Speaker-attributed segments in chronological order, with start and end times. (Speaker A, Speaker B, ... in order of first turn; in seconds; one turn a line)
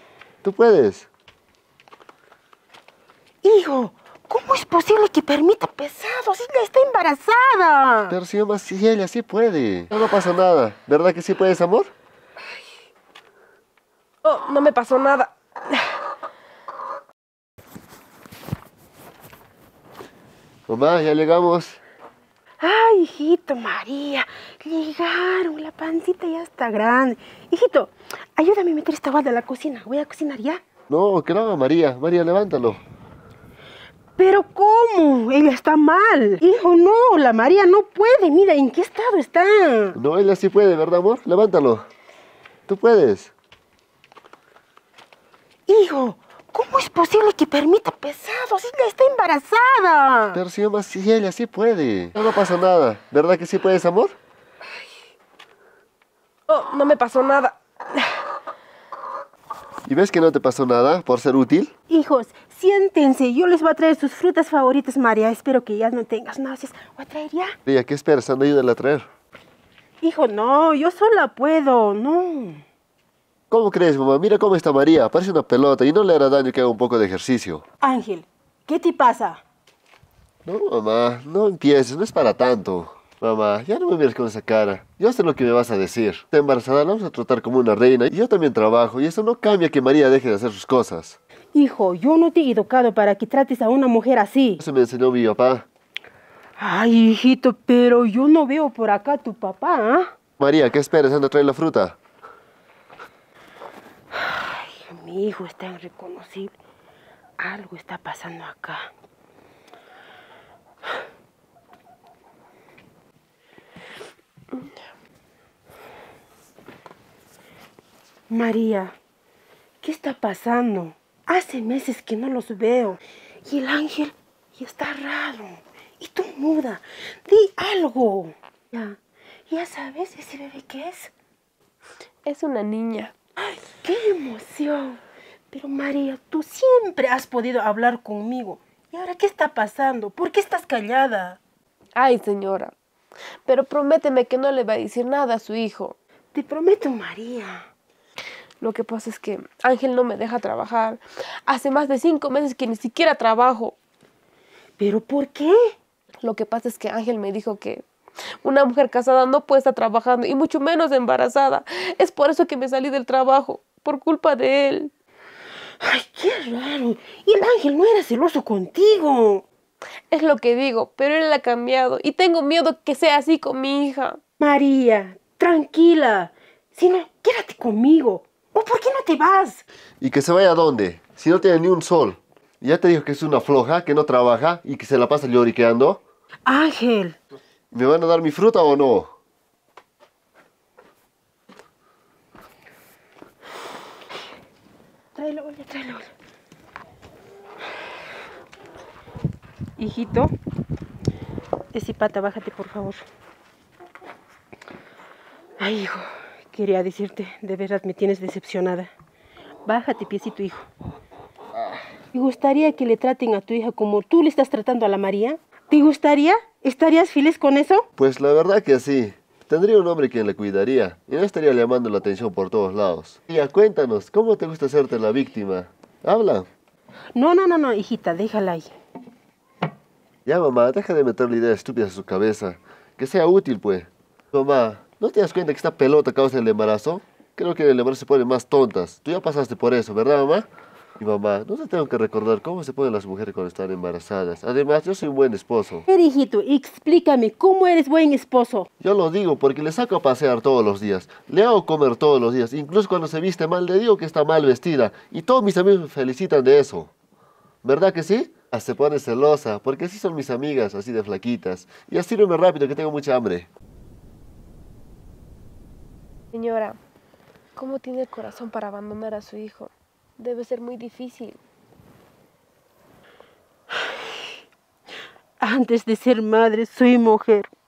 Speaker A: 0.4-1.1
Speaker B: 3.4-8.2
Speaker A: 8.1-11.9
Speaker C: 14.2-15.9
Speaker A: 20.7-21.8
Speaker B: 22.6-30.6
Speaker A: 30.9-32.8
Speaker B: 34.2-40.0
Speaker A: 40.0-41.9
Speaker A: 42.7-43.3
Speaker B: 45.7-50.4
Speaker A: 50.3-54.1
Speaker C: 56.5-58.0
Speaker A: 59.9-61.7
Speaker B: 61.9-67.6
Speaker A: 67.7-69.1
Speaker B: 70.0-72.6
Speaker A: 73.5-77.6
Speaker B: 77.8-79.4
Speaker A: 80.5-91.2
Speaker B: 91.5-94.6
Speaker A: 94.6-95.7
Speaker B: 96.6-100.1
Speaker A: 100.4-102.0
Speaker B: 104.1-106.6
Speaker B: 107.4-108.9
Speaker B: 118.3-119.0
Speaker B: 119.8-129.0
Speaker B: 129.5-131.1
Speaker C: 132.2-133.1
Speaker B: 133.4-141.4
Speaker C: 142.0-142.7
Speaker C: 143.5-146.0
Speaker B: 146.3-147.7
Speaker C: 148.6-153.8
Speaker B: 154.8-155.7
Speaker C: 156.2-157.8
Speaker C: 158.4-164.9
Speaker B: 165.8-169.5
Speaker C: 170.1-174.2
Speaker B: 174.4-179.6
Speaker A: 180.0-186.0
Speaker B: 186.5-187.2
Speaker A: 187.7-189.1
Speaker B: 195.2-196.1
Speaker B: 199.8-200.3
Speaker B: 201.7-203.0
Speaker B: 205.6-208.9
Speaker B: 209.7-210.7
Speaker B: 212.1-217.9
Speaker A: 218.0-226.5
Speaker B: 227.2-228.7
Speaker A: 230.3-240.5
Speaker A: 241.0-245.9
Speaker B: 245.9-248.7
Speaker A: 248.8-256.9
Speaker A: 257.6-263.5
Speaker C: 266.3-266.8
Speaker C: 267.6-271.4
Speaker B: 275.4-277.5